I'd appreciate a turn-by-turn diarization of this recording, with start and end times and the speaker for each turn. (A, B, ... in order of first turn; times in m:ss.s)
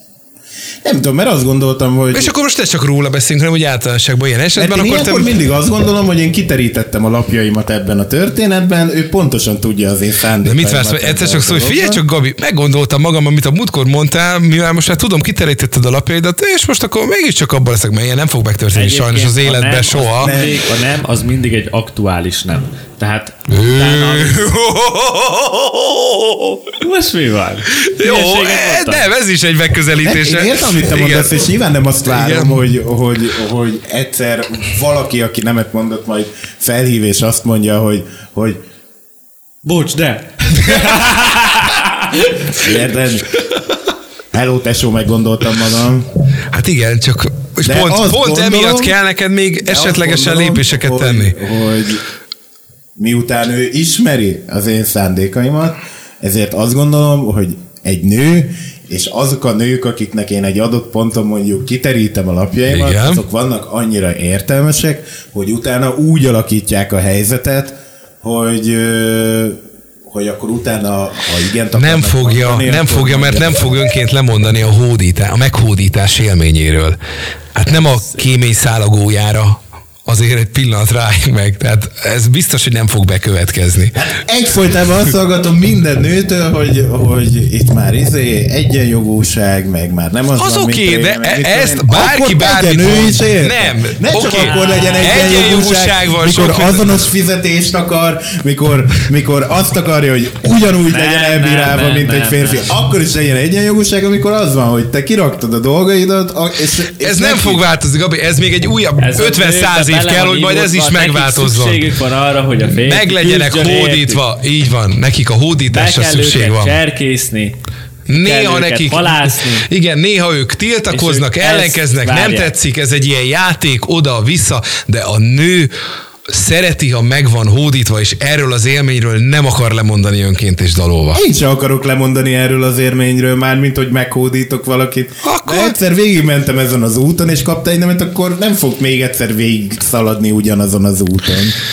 0:00.8-0:02.3 A
0:02.1-0:05.4 B
0:04.6-0:12.0 A
0:10.4-0:20.4 B
0:18.7-0:24.5 C
0:20.2-0:20.6 A
0:23.5-0:26.8 B
0:26.8-0:29.1 C
0:27.8-0:31.4 B
0:30.0-0:38.6 A
0:32.1-0:32.6 B
0:39.6-0:42.7 C
0:42.6-0:43.3 A
0:44.3-0:46.1 A
0:46.5-0:51.4 B
0:47.6-0:49.0 A
0:49.6-0:52.0 A
0:53.0-1:13.8 A
1:02.7-1:03.2 B
1:11.8-1:17.0 B
1:17.6-1:24.0 B
1:17.7-1:18.2 C
1:23.9-1:47.6 A
1:30.4-1:37.0 B
1:34.3-1:35.3 C
1:40.9-1:42.8 C
1:47.0-1:51.9 B
1:49.0-1:54.2 C
1:52.8-1:56.8 B
1:55.7-1:57.6 C
1:58.1-2:05.7 B
1:58.2-1:59.7 C
2:00.9-2:02.5 C
2:06.3-2:11.2 B
2:11.1-2:21.6 A
2:15.2-2:15.8 B